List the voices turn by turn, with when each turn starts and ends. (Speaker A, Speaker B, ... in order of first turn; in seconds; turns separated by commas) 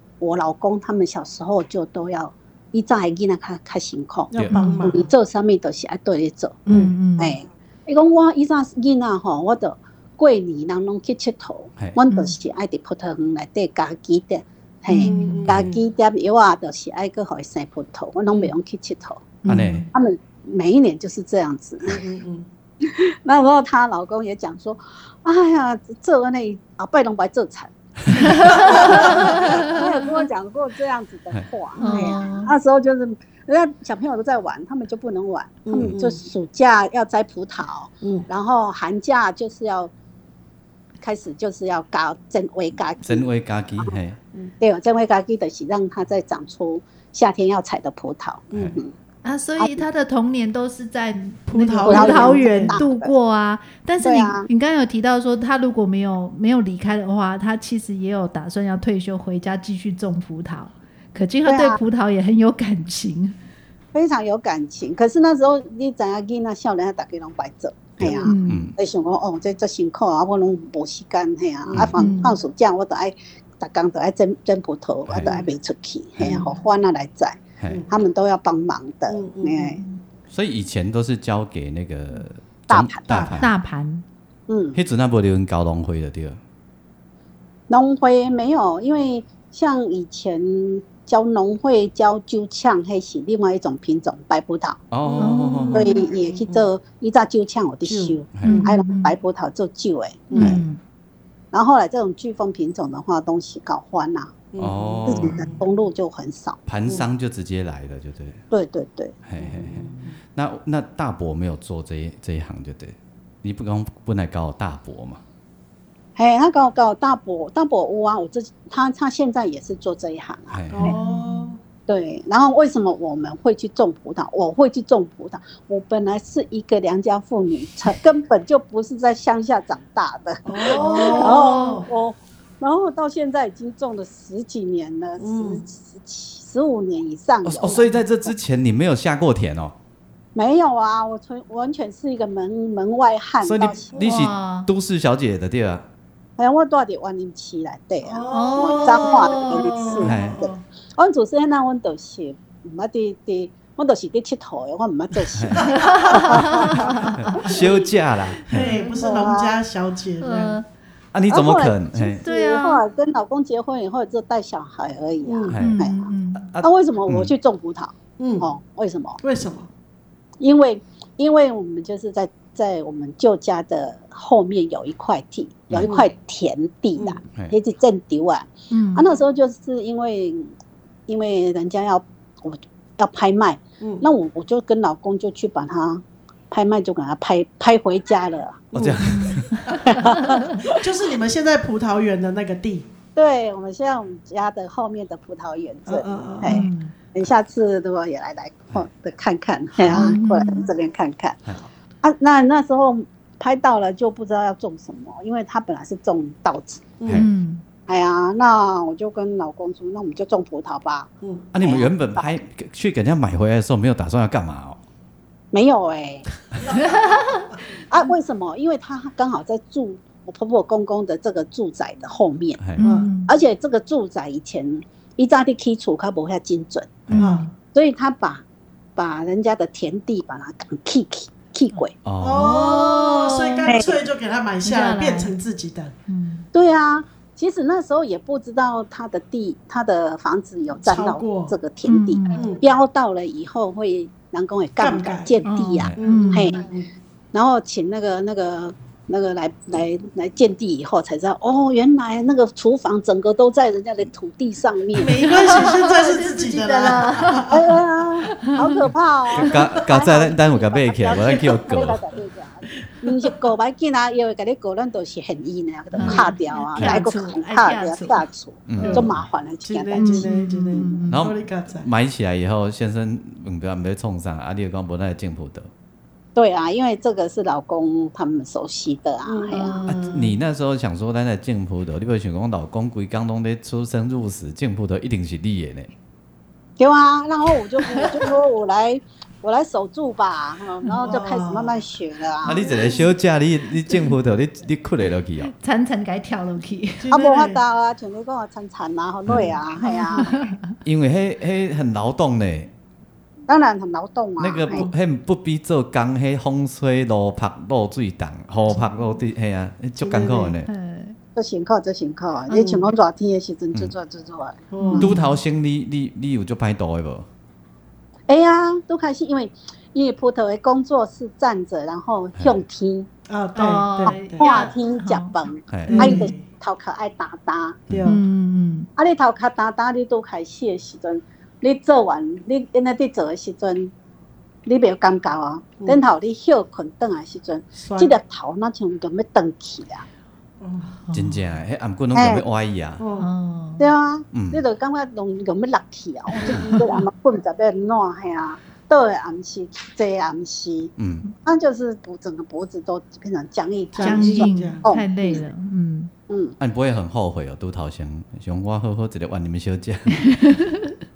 Speaker A: 0.2-19.4, Speaker B: 4.3-5.1, Speaker C: 4.5-4.9, Speaker C: 6.7-7.3, Speaker B: 6.7-6.9, Speaker C: 12.1-12.3, Speaker C: 14.9-15.4, Speaker B: 15.0-15.8, Speaker D: 15.5-15.8, Speaker C: 19.4-19.9, Speaker D: 19.5-19.9, Speaker A: 19.9-22.0, Speaker B: 21.9-22.5, Speaker A: 22.8-39.9, Speaker C: 28.2-29.8, Speaker B: 28.6-29.3, Speaker C: 31.8-32.5, Speaker B: 35.6-36.2, Speaker A: 41.0-43.2, Speaker D: 43.0-44.2, Speaker A: 44.6-48.9, Speaker C: 49.2-63.4, Speaker A: 49.6-49.8, Speaker B: 51.5-52.8, Speaker A: 51.9-53.1, Speaker A: 54.0-54.5, Speaker A: 61.5-61.8, Speaker A: 63.9-79.8, Speaker D: 68.0-68.7, Speaker C: 68.2-68.7, Speaker D: 71.7-72.0, Speaker C: 72.0-72.3, Speaker D: 75.1-75.4, Speaker B: 79.1-79.8, Speaker D: 80.3-83.5, Speaker A: 82.7-83.1, Speaker B: 83.1-83.4, Speaker C: 83.4-84.0, Speaker A: 84.5-84.8, Speaker D: 84.7-86.4, Speaker A: 87.7-94.8, Speaker D: 94.9-95.8, Speaker B: 95.0-96.7, Speaker C: 95.2-96.0, Speaker A: 95.7-100.6, Speaker B: 97.8-98.2, Speaker D: 98.3-98.6, Speaker C: 98.4-99.1, Speaker B: 100.3-100.6, Speaker C: 100.3-100.8, Speaker A: 101.5-104.4, Speaker B: 104.5-105.6, Speaker D: 104.6-105.4, Speaker A: 105.0-106.6, Speaker D: 106.7-108.4, Speaker A: 108.5-109.2, Speaker D: 109.2-115.2, Speaker B: 109.4-110.1, Speaker A: 116.2-120.9, Speaker D: 120.5-120.9, Speaker B: 120.7-121.6, Speaker C: 120.8-121.5, Speaker A: 121.9-137.9, Speaker B: 130.4-131.9, Speaker C: 130.7-131.8, Speaker B: 135.2-135.6, Speaker D: 137.4-139.7, Speaker A: 140.3-144.1, Speaker D: 143.4-145.8, Speaker C: 144.0-144.7, Speaker A: 146.4-156.8, Speaker B: 148.0-150.6, Speaker C: 148.3-150.0, Speaker D: 150.0-150.4, Speaker D: 155.3-155.6, Speaker B: 155.5-157.5, Speaker C: 155.7-157.5, Speaker D: 157.2-158.7, Speaker B: 158.5-160.6, Speaker C: 158.5-159.3, Speaker A: 159.0-159.6, Speaker C: 160.2-160.7, Speaker D: 161.1-162.2, Speaker A: 161.3-166.1, Speaker C: 162.2-162.8, Speaker B: 165.2-165.6, Speaker D: 165.5-165.8, Speaker C: 165.6-166.5, Speaker D: 166.4-167.3, Speaker A: 166.6-169.2, Speaker B: 168.2-168.5, Speaker B: 169.2-169.7, Speaker A: 170.4-180.5, Speaker C: 178.7-179.1, Speaker A: 181.1-188.7, Speaker B: 183.8-184.1, Speaker B: 188.7-189.1, Speaker D: 188.7-189.7, Speaker C: 189.0-190.5, Speaker B: 189.7-192.8, Speaker A: 189.8-190.8, Speaker A: 193.2-201.4, Speaker B: 195.9-196.7, Speaker C: 196.4-196.9, Speaker D: 199.8-200.1, Speaker C: 199.9-200.7, Speaker A: 202.0-206.9, Speaker B: 207.0-207.2, Speaker C: 207.1-207.6, Speaker A: 207.9-212.3, Speaker D: 211.5-214.8, Speaker A: 215.5-216.3, Speaker C: 216.7-217.5, Speaker A: 217.9-222.6, Speaker D: 222.6-222.9, Speaker C: 222.8-223.3, Speaker B: 222.8-223.1, Speaker A: 223.2-227.1, Speaker C: 227.1-227.5, Speaker B: 227.1-227.4, Speaker A: 227.7-228.4, Speaker A: 228.9-231.9, Speaker D: 232.0-232.6, Speaker B: 232.2-235.9, Speaker C: 232.3-233.8, Speaker A: 233.6-234.0, Speaker C: 234.6-235.3, Speaker C: 236.1-236.4, Speaker A: 236.5-246.6, Speaker B: 240.9-241.5, Speaker C: 241.8-242.4, Speaker B: 242.3-242.6, Speaker B: 244.8-245.3, Speaker C: 245.4-246.6, Speaker B: 246.0-246.9, Speaker A: 247.3-255.4, Speaker B: 254.9-257.8, Speaker C: 255.2-257.6, Speaker A: 257.5-270.9, Speaker C: 258.3-258.8, Speaker D: 259.3-262.0, Speaker B: 261.3-261.5, Speaker C: 265.9-268.2, Speaker D: 266.8-267.0, Speaker D: 268.7-269.2, Speaker B: 268.8-269.1, Speaker B: 269.6-271.9, Speaker C: 270.0-271.3, Speaker D: 271.1-275.7, Speaker A: 276.3-279.9, Speaker B: 279.3-280.3, Speaker D: 279.9-285.9, Speaker A: 286.8-292.7, Speaker B: 291.0-291.8, Speaker D: 292.4-295.5, Speaker C: 295.5-297.1, Speaker B: 297.0-297.6, Speaker A: 297.1-300.4, Speaker D: 299.2-299.5, Speaker C: 299.8-300.7, Speaker D: 300.8-302.7, Speaker A: 303.5-304.9, Speaker D: 304.4-310.7, Speaker B: 310.0-310.6, Speaker C: 310.7-311.2, Speaker A: 311.4-315.1, Speaker B: 312.5-312.8, Speaker B: 314.7-315.1, Speaker C: 314.8-315.4, Speaker D: 315.0-317.3, Speaker A: 318.3-323.1, Speaker D: 322.4-322.6, Speaker B: 323.3-324.5, Speaker C: 323.6-325.3, Speaker A: 324.0-327.8, Speaker D: 325.7-326.1, Speaker B: 325.9-326.4, Speaker C: 325.9-326.3, Speaker D: 327.9-328.1, Speaker B: 327.9-328.2, Speaker C: 328.1-328.9, Speaker A: 328.9-333.9, Speaker A: 334.6-340.1, Speaker B: 337.8-338.1, Speaker B: 340.6-341.0, Speaker C: 341.1-341.4, Speaker D: 341.1-343.1, Speaker A: 342.1-342.4, Speaker B: 343.0-343.3, Speaker C: 343.2-343.9, Speaker A: 343.8-350.9, Speaker D: 344.3-344.6, Speaker B: 346.4-347.0, Speaker D: 351.0-351.2, Speaker A: 351.4-355.4, Speaker B: 353.9-354.8, Speaker C: 354.0-356.1, Speaker A: 356.3-356.5, Speaker D: 356.6-360.3, Speaker C: 360.3-360.9